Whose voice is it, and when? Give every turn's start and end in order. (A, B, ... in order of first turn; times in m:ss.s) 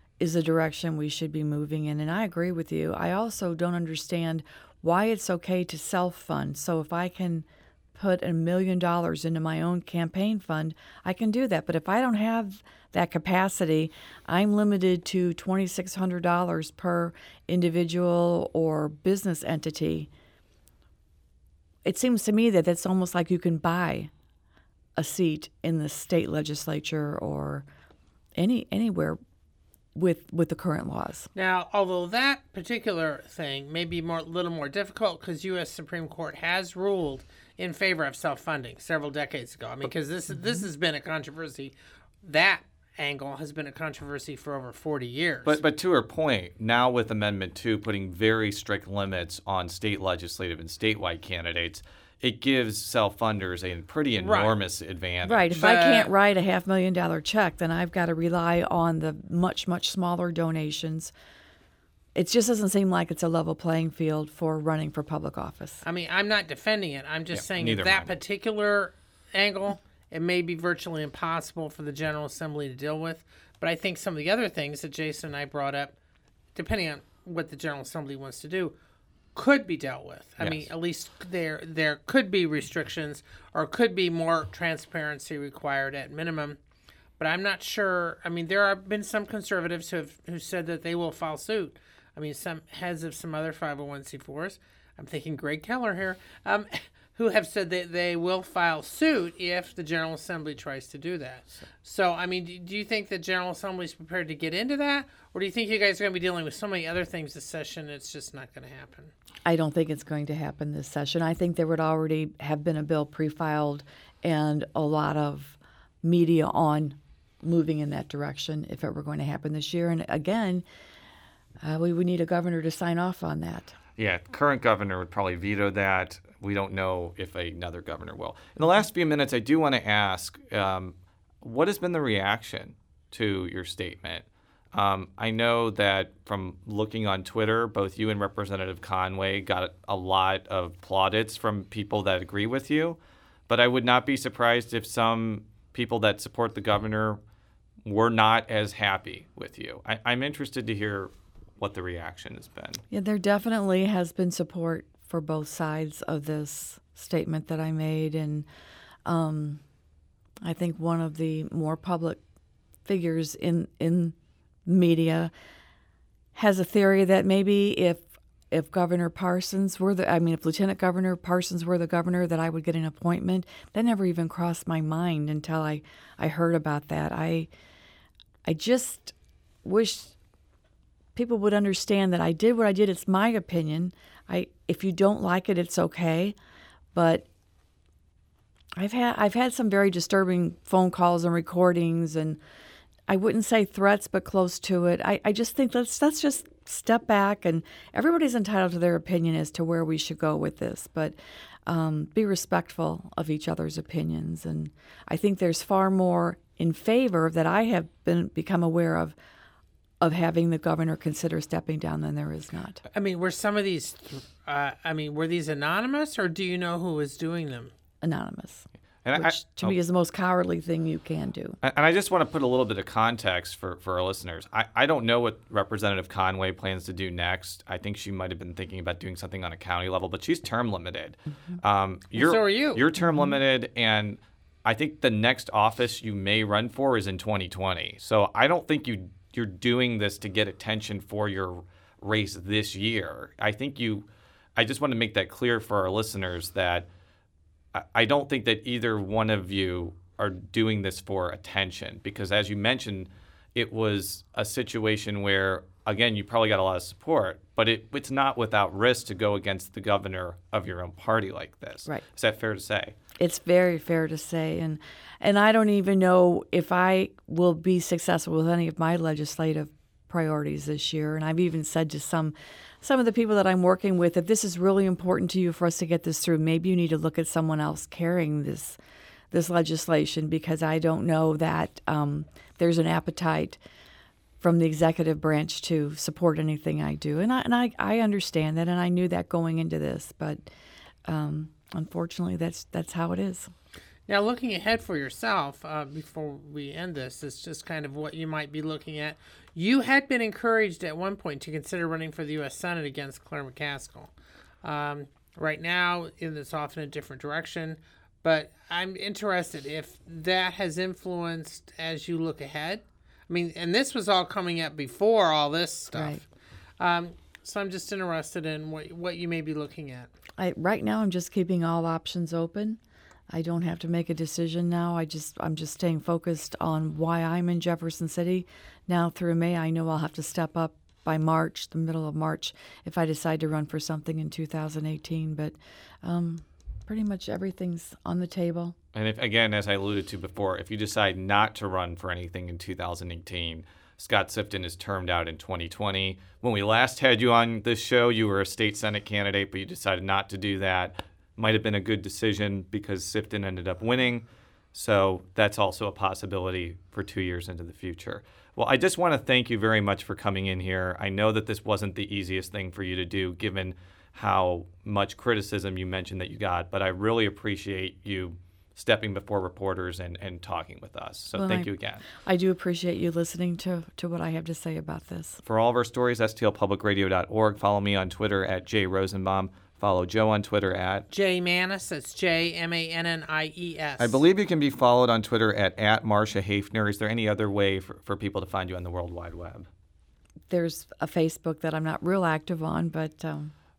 0:00.2-0:20.1 A
0:21.8-0:24.1 A
0:25.0-0:27.7 A
0:28.4-0:29.2 A
0:30.0-0:31.3 A
0:31.4-0:45.6 B
0:45.4-0:55.5 C
0:54.2-0:54.5 B
0:55.2-1:01.1 A
0:55.5-0:56.1 B
1:02.2-1:05.8 A
1:05.8-1:16.0 B
1:07.3-1:08.2 C
1:16.6-1:18.7 B
1:19.4-1:26.6 B
1:20.4-1:20.7 C
1:27.2-1:49.1 B
1:49.4-2:00.6 A
2:01.6-2:03.8 A
2:04.0-2:23.0 C
2:23.5-2:27.2 C
2:27.8-2:32.8 C
2:32.9-2:38.5 A
2:39.0-2:39.6 A
2:40.4-2:42.2 A
2:42.8-2:44.2 A
2:44.7-2:45.3 A
2:46.4-2:57.5 A
2:58.4-3:00.1 A
3:01.2-3:06.4 A
3:06.9-3:07.3 A
3:08.8-3:12.4 A
3:13.1-3:21.2 A
3:21.7-3:29.2 A
3:30.0-3:32.8 A
3:32.9-3:37.7 B
3:38.0-3:41.6 A
3:39.0-3:39.8 C
3:41.6-4:06.9 C
3:52.2-3:52.8 B
4:07.7-4:23.0 C
4:23.2-4:38.8 A
4:39.3-4:43.6 A
4:44.4-4:50.4 A
4:51.1-4:53.5 A
4:54.1-5:04.1 B
5:04.6-5:16.2 B
5:15.9-5:16.2 A
5:16.8-5:20.1 B
5:20.4-5:22.8 A
5:23.3-5:38.8 A
5:38.9-6:12.1 C
6:11.3-6:15.4 A
6:15.4-6:21.1 C
6:21.1-6:24.2 B
6:24.0-6:29.7 C
6:30.5-6:33.5 A